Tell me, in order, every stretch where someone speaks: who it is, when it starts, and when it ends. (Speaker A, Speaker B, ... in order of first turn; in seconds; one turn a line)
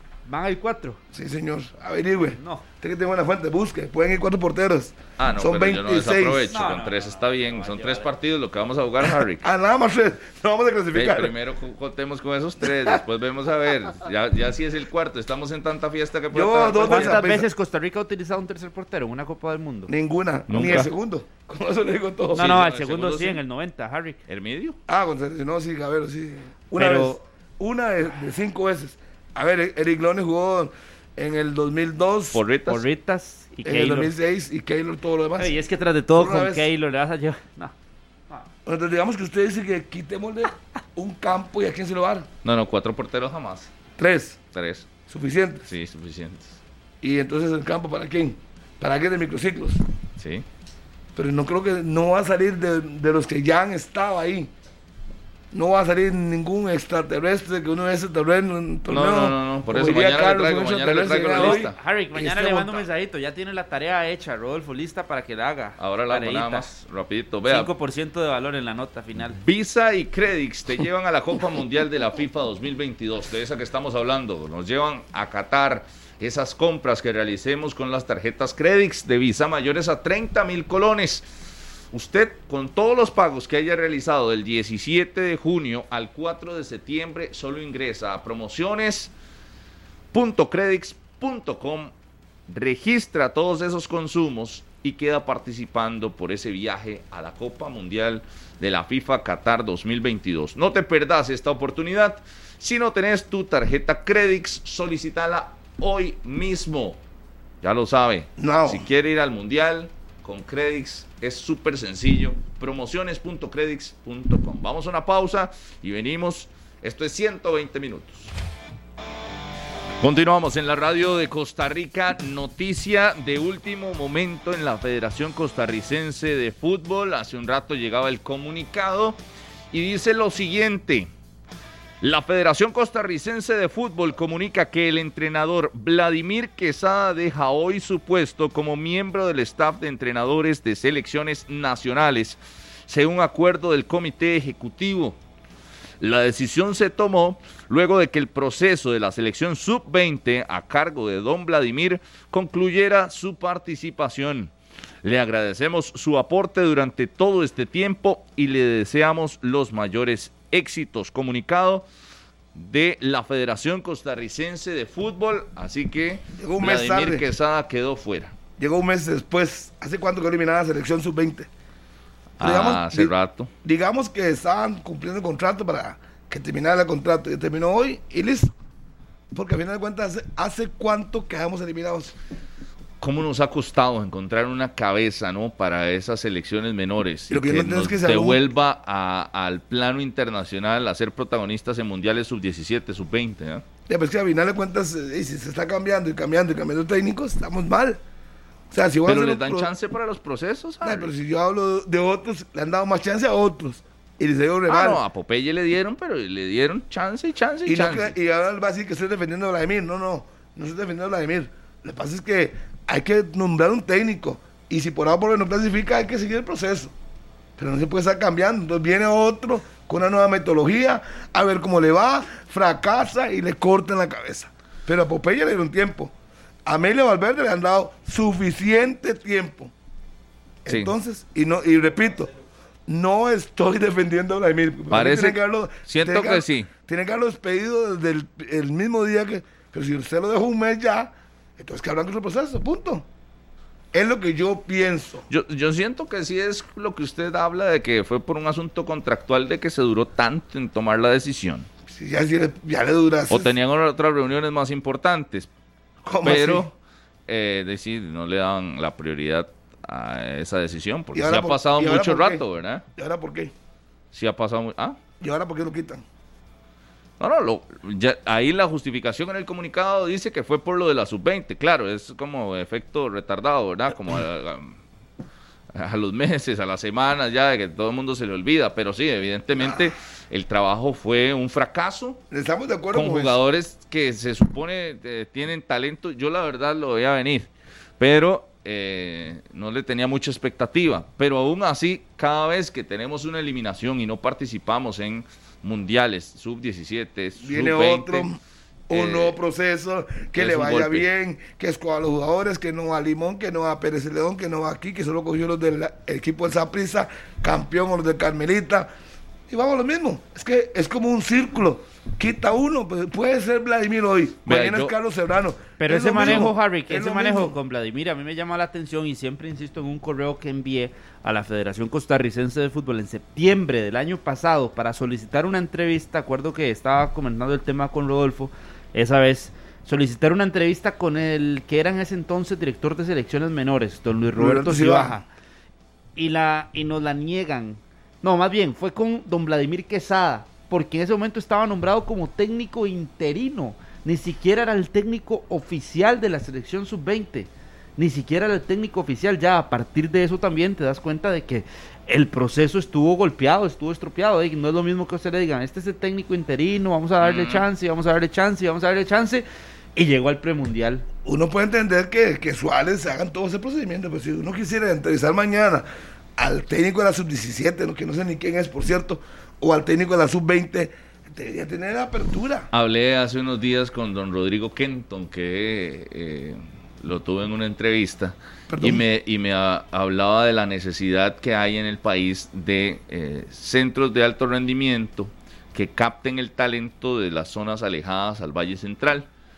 Speaker A: 0.3-1.0
Speaker B: 1.1-6.5
Speaker A: 2.3-2.6
Speaker C: 5.2-9.4
Speaker A: 6.5-8.1
Speaker B: 9.4-11.3
Speaker C: 10.9-17.2
Speaker B: 12.6-13.0
Speaker B: 16.3-17.5
Speaker A: 16.8-19.9
Speaker B: 19.9-22.5
Speaker C: 20.5-20.9
Speaker A: 20.5-20.8
Speaker A: 22.3-24.2
Speaker C: 22.3-23.4
Speaker C: 24.3-24.8
Speaker B: 24.9-32.4
Speaker A: 26.8-27.1
Speaker C: 32.3-32.8
Speaker A: 32.7-34.1
Speaker B: 33.6-35.5
Speaker A: 35.4-37.7
Speaker B: 36.1-36.7
Speaker B: 38.6-42.3
Speaker C: 42.4-43.7
Speaker B: 44.0-44.4
Speaker C: 44.5-44.9
Speaker B: 45.1-45.6
Speaker C: 45.6-46.6
Speaker B: 47.0-49.8
Speaker C: 50.2-50.5
Speaker B: 51.1-54.5
Speaker B: 55.5-62.8
Speaker C: 58.9-61.7
Speaker A: 61.3-66.7
Speaker C: 65.8-67.7
Speaker A: 67.5-69.4
Speaker C: 69.4-81.2
Speaker C: 81.9-89.1
Speaker C: 90.1-91.9
Speaker C: 92.5-107.0
Speaker C: 107.6-118.3
Speaker B: 108.4-108.8
Speaker C: 120.0-129.2
Speaker C: 129.7-131.1
Speaker C: 132.0-145.2
Speaker C: 146.0-154.5
Speaker C: 155.0-161.8
Speaker C: 162.5-168.3
Speaker B: 166.3-167.2
Speaker B: 168.6-171.5
Speaker C: 172.4-173.5
Speaker B: 172.4-173.1
Speaker B: 173.6-178.5
Speaker B: 179.3-182.1
Speaker C: 183.0-193.6
Speaker B: 187.3-188.4
Speaker B: 193.9-198.0
Speaker B: 198.7-199.7
Speaker C: 199.0-201.1
Speaker B: 200.8-205.0
Speaker C: 204.7-208.1
Speaker B: 207.6-216.9
Speaker B: 217.6-226.1
Speaker B: 226.7-229.7
Speaker B: 230.6-232.3
Speaker C: 230.7-230.9
Speaker B: 232.9-243.0
Speaker C: 234.9-236.7
Speaker B: 243.9-245.2
Speaker C: 245.3-251.7
Speaker B: 251.9-253.5
Speaker C: 253.3-255.5
Speaker B: 256.0-256.7
Speaker C: 256.2-256.7
Speaker C: 257.3-262.8
Speaker B: 261.1-262.4
Speaker B: 262.9-263.5
Speaker C: 264.1-265.0
Speaker B: 265.2-266.0
Speaker C: 267.2-274.8
Speaker C: 275.7-282.2
Speaker B: 282.3-283.4
Speaker C: 282.9-298.3
Speaker B: 297.4-308.9
Speaker C: 298.9-299.4
Speaker C: 300.3-301.1
Speaker B: 309.5-317.5
Speaker C: 314.4-314.9
Speaker A: 315.8-335.2
Speaker B: 334.4-335.2
Speaker A: 336.2-359.4
Speaker C: 357.2-357.6
Speaker A: 359.9-361.0
Speaker B: 361.2-372.7
Speaker C: 372.7-389.3
Speaker B: 378.7-379.0